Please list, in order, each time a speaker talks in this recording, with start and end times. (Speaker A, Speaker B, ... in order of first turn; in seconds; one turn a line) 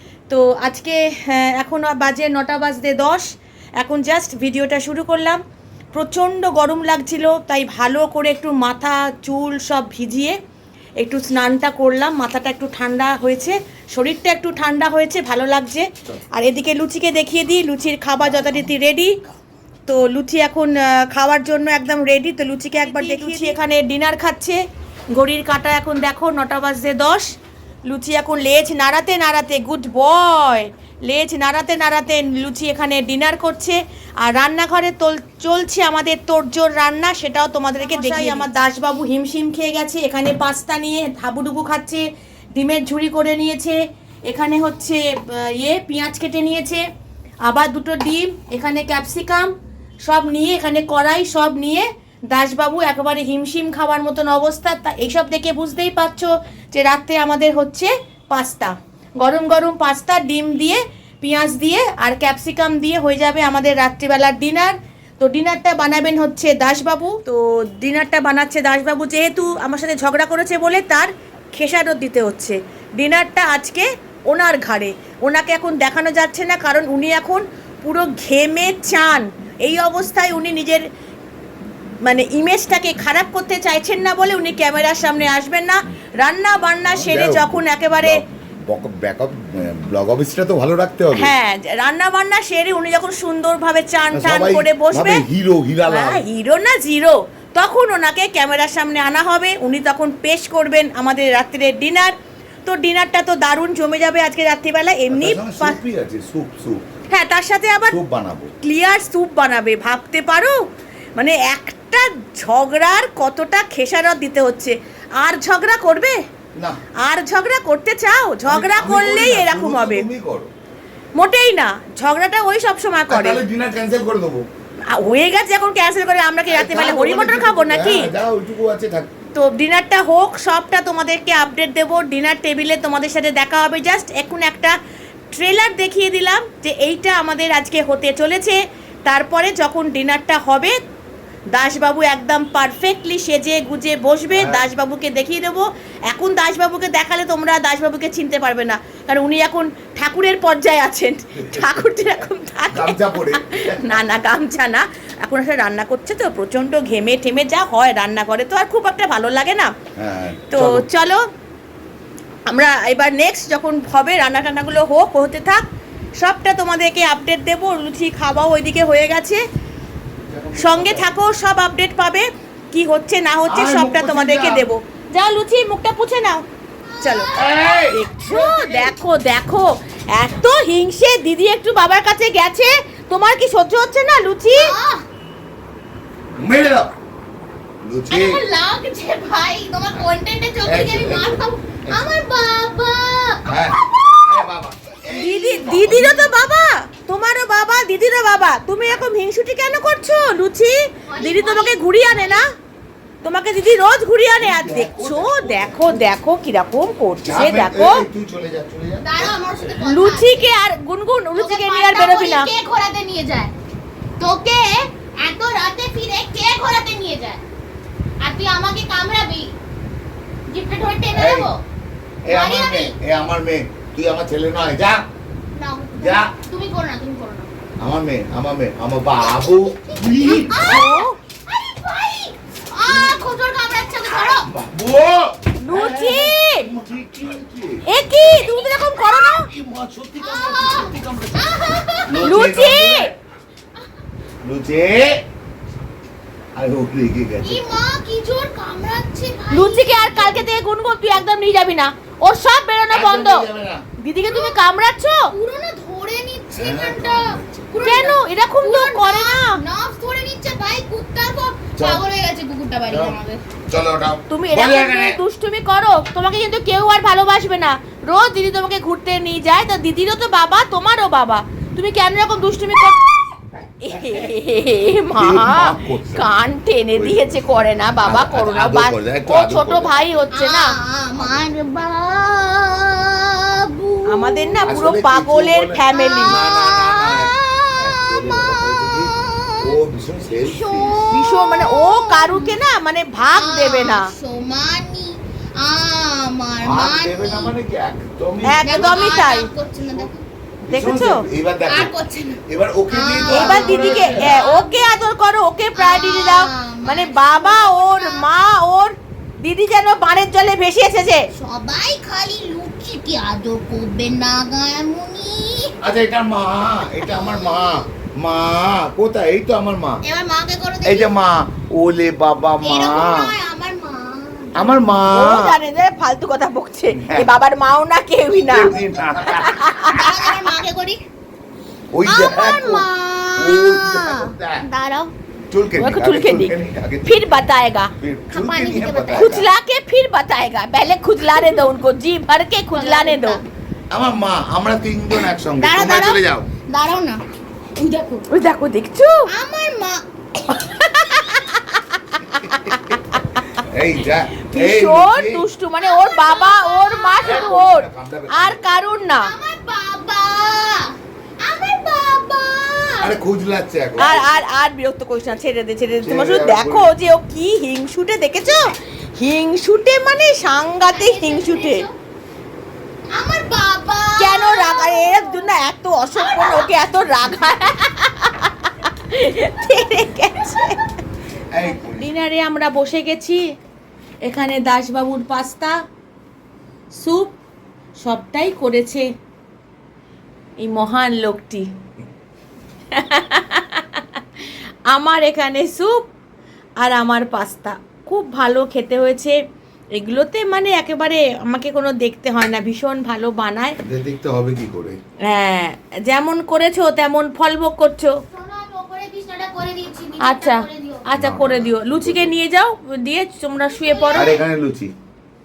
Speaker A: 0.3-3.3
Speaker A: 3.8-5.4
Speaker A: 5.9-10.3
Speaker A: 11.0-19.2
Speaker A: 19.9-24.6
Speaker B: 22.8-23.5
Speaker A: 25.1-27.3
Speaker A: 27.9-42.0
Speaker B: 37.8-38.5
Speaker A: 42.5-46.8
Speaker A: 47.5-49.5
Speaker A: 50.1-80.8
Speaker A: 82.0-88.2
Speaker C: 86.8-91.3
Speaker A: 91.1-95.2
Speaker C: 94.1-96.2
Speaker A: 95.9-105.8
Speaker C: 105.1-106.8
Speaker A: 107.1-108.0
Speaker C: 107.9-108.5
Speaker A: 108.6-110.5
Speaker A: 111.2-116.2
Speaker A: 117.0-120.1
Speaker C: 118.5-120.5
Speaker A: 121.2-123.4
Speaker C: 123.1-124.5
Speaker A: 124.9-128.1
Speaker C: 126.5-129.1
Speaker A: 129.3-134.8
Speaker A: 135.3-140.8
Speaker A: 141.5-159.7
Speaker C: 144.3-144.7
Speaker C: 151.3-152.0
Speaker C: 152.7-154.0
Speaker C: 159.9-160.9
Speaker A: 160.5-161.2
Speaker A: 162.5-165.6
Speaker A: 166.2-169.4
Speaker C: 170.3-171.1
Speaker A: 170.6-176.4
Speaker C: 173.4-174.7
Speaker A: 177.0-177.3
Speaker B: 177.0-177.8
Speaker C: 177.3-178.9
Speaker A: 177.9-184.7
Speaker B: 184.5-185.0
Speaker C: 186.4-186.9
Speaker C: 187.8-188.4
Speaker B: 188.1-193.4
Speaker C: 190.6-191.4
Speaker C: 193.4-196.3
Speaker A: 195.1-202.5
Speaker B: 201.1-202.4
Speaker A: 203.2-208.0
Speaker C: 204.4-206.1
Speaker C: 207.2-209.4
Speaker B: 209.0-210.5
Speaker A: 209.8-212.5
Speaker B: 211.3-213.5
Speaker B: 214.2-217.4
Speaker B: 218.2-219.5
Speaker B: 220.5-221.6
Speaker C: 221.1-221.5
Speaker C: 222.2-225.0
Speaker B: 222.3-222.9
Speaker B: 225.6-227.5
Speaker C: 226.0-226.3
Speaker C: 227.8-230.8
Speaker B: 229.2-234.5
Speaker A: 230.6-231.2
Speaker C: 232.9-233.2
Speaker C: 234.2-237.8
Speaker A: 235.6-236.7
Speaker A: 237.8-239.5
Speaker B: 238.2-238.7
Speaker C: 239.2-243.1
Speaker B: 240.2-242.3
Speaker A: 242.2-243.1
Speaker C: 244.4-245.2
Speaker C: 246.6-247.7
Speaker B: 247.4-250.5
Speaker A: 249.5-253.5
Speaker C: 252.9-253.8
Speaker A: 254.0-255.3
Speaker B: 254.2-254.6
Speaker B: 255.3-263.4
Speaker C: 256.5-258.1
Speaker A: 257.8-259.6
Speaker C: 261.8-262.0
Speaker C: 262.9-263.2
Speaker C: 263.7-265.2
Speaker A: 264.3-273.2
Speaker A: 273.8-280.7
Speaker C: 275.1-276.3
Speaker C: 276.9-280.1
Speaker B: 280.3-284.5
Speaker C: 281.2-281.5
Speaker A: 284.1-286.4
Speaker C: 284.7-291.0
Speaker B: 285.8-289.6
Speaker B: 290.4-292.5
Speaker A: 291.1-294.1
Speaker B: 293.3-297.5
Speaker C: 296.6-299.0
Speaker A: 298.4-299.5
Speaker B: 298.6-300.1
Speaker A: 300.6-301.2
Speaker C: 300.7-304.3
Speaker B: 301.6-305.1
Speaker A: 303.3-311.3
Speaker B: 305.7-308.2
Speaker B: 311.3-315.7
Speaker C: 315.8-320.0
Speaker B: 317.0-317.9
Speaker B: 320.0-321.1
Speaker C: 320.8-323.3
Speaker B: 322.6-324.8
Speaker C: 324.5-325.6
Speaker A: 325.1-330.4
Speaker C: 326.9-327.3
Speaker C: 328.5-329.6
Speaker B: 329.9-331.0
Speaker C: 331.9-334.6
Speaker B: 332.1-335.1
Speaker C: 335.5-337.3
Speaker A: 335.8-337.9
Speaker C: 338.0-339.5
Speaker B: 338.3-339.4
Speaker A: 339.1-343.4
Speaker B: 342.7-343.4
Speaker C: 343.9-346.5
Speaker B: 345.6-347.2
Speaker B: 347.8-348.2
Speaker A: 348.3-349.3
Speaker B: 349.3-350.0
Speaker A: 350.5-353.6
Speaker C: 352.4-353.0
Speaker C: 353.5-355.4
Speaker A: 354.5-359.3
Speaker B: 355.8-357.6
Speaker C: 357.2-358.7
Speaker B: 359.2-363.2
Speaker C: 363.0-364.2
Speaker A: 364.0-371.9
Speaker C: 366.0-366.9
Speaker B: 370.9-371.9
Speaker B: 373.1-375.3
Speaker A: 374.2-380.8
Speaker B: 376.1-376.7
Speaker C: 381.5-382.1
Speaker A: 381.7-383.4
Speaker A: 384.2-385.8
Speaker A: 386.9-387.3
Speaker A: 388.0-389.1
Speaker A: 390.6-391.7
Speaker A: 392.9-396.0
Speaker A: 396.8-399.4
Speaker A: 399.9-403.8
Speaker C: 403.8-405.0
Speaker A: 405.3-408.2
Speaker B: 408.3-411.1
Speaker A: 410.2-414.3
Speaker C: 411.1-412.3
Speaker B: 413.7-414.4
Speaker C: 414.1-414.9